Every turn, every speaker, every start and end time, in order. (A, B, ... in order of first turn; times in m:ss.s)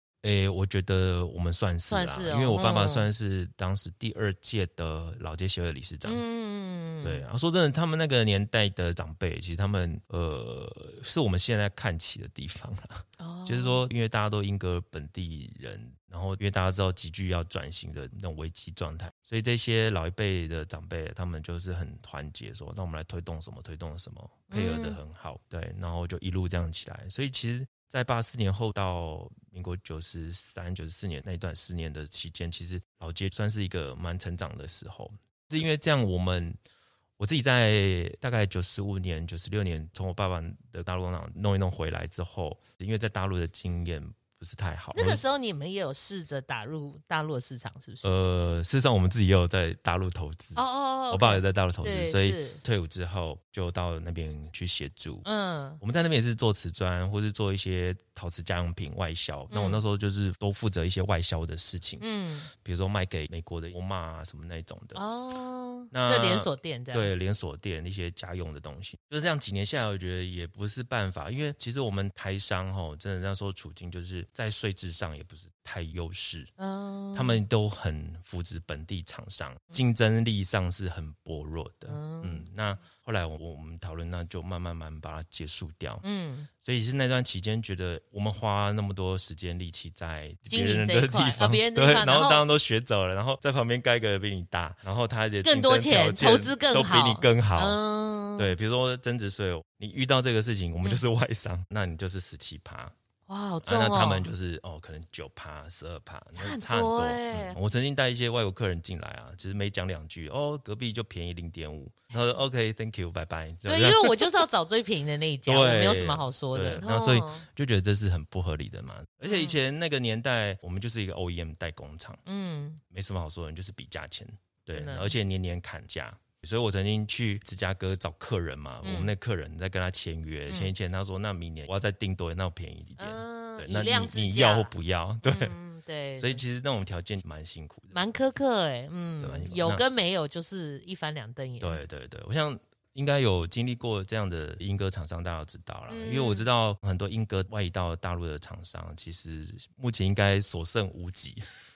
0:00.2-0:06.2 A
0:01.9-0:03.1 B
0:06.0-0:07.2 B
0:07.0-0:36.6 A
0:13.2-0:13.8 B
0:24.5-0:25.0 B
0:37.2-0:45.2 A
0:45.0-0:48.1 B
0:48.0-0:55.2 A
0:50.6-0:52.6 B
0:55.2-0:55.8 B
0:55.8-1:02.0 A
0:59.5-0:59.8 B
1:02.0-1:02.5 B
1:02.6-1:05.0 A
1:05.0-1:07.1 B
1:05.9-1:16.5 A
1:16.6-1:17.4 B
1:17.1-1:26.0 A
1:21.9-1:22.5 B
1:26.0-1:26.5 B
1:26.6-1:37.8 A
1:30.5-1:32.4 B
1:35.4-1:38.6 B
1:38.4-1:42.9 A
1:43.3-1:44.3 B
1:43.6-1:54.4 A
1:46.4-1:47.6 B
1:53.7-1:57.4 B
1:55.5-2:02.2 A
1:59.2-1:59.6 B
2:02.3-2:02.8 B
2:02.9-2:15.6 A
2:04.7-2:05.2 B
2:08.8-2:09.1 B
2:10.5-2:10.7 B
2:13.0-2:14.7 B
2:15.2-2:16.4 B
2:16.2-2:18.0 A
2:17.9-2:21.8 B
2:19.2-2:19.8 A
2:21.6-2:31.4 A
2:25.9-2:26.5 B